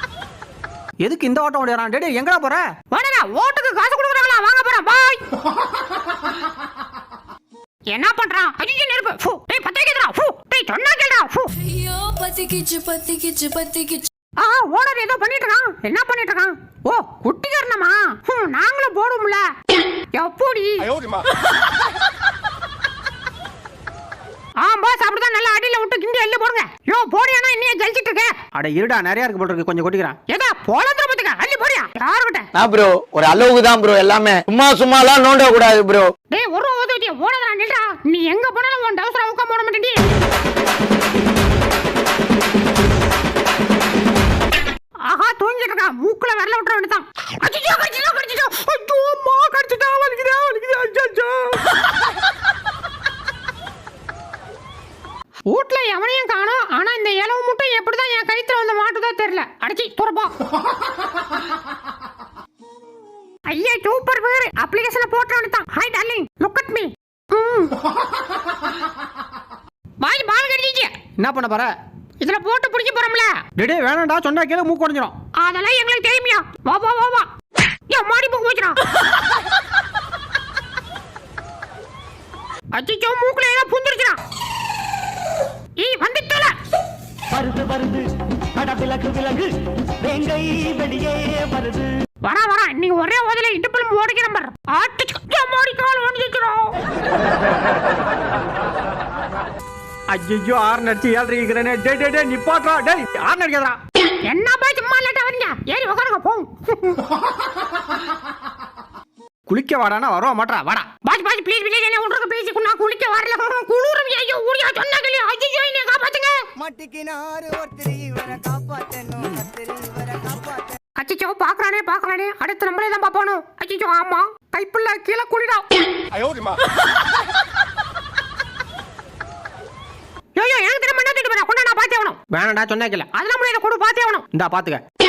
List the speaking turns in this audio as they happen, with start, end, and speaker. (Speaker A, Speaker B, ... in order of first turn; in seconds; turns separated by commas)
Speaker A: 1.0-2.7, Speaker B: 2.9-5.2, Speaker B: 7.9-11.5, Speaker C: 11.6-14.1, Speaker B: 14.4-19.5, Speaker B: 20.1-21.2, Speaker B: 24.6-28.3, Speaker A: 28.5-30.1, Speaker B: 30.3-32.5, Speaker D: 32.5-36.1, Speaker B: 36.3-40.0, Speaker B: 45.1-51.5, Speaker B: 55.5-60.3, Speaker B: 63.5-67.8, Speaker B: 70.0-70.9, Speaker A: 71.2-71.7, Speaker B: 72.2-73.4, Speaker A: 73.6-75.1, Speaker B: 75.4-77.3, Speaker B: 77.9-78.8, Speaker B: 82.8-84.2, Speaker B: 85.8-86.5, Speaker E: 87.3-88.0, Speaker E: 88.6-89.5, Speaker E: 90.0-91.9, Speaker B: 92.2-96.7, Speaker A: 100.1-103.8, Speaker B: 104.3-107.0, Speaker A: 109.5-110.9, Speaker B: 111.0-116.4, Speaker F: 116.6-120.7, Speaker B: 121.0-126.5, Speaker B: 130.4-132.2, Speaker A: 132.3-133.1, Speaker B: 133.1-134.2, Speaker A: 134.3-134.8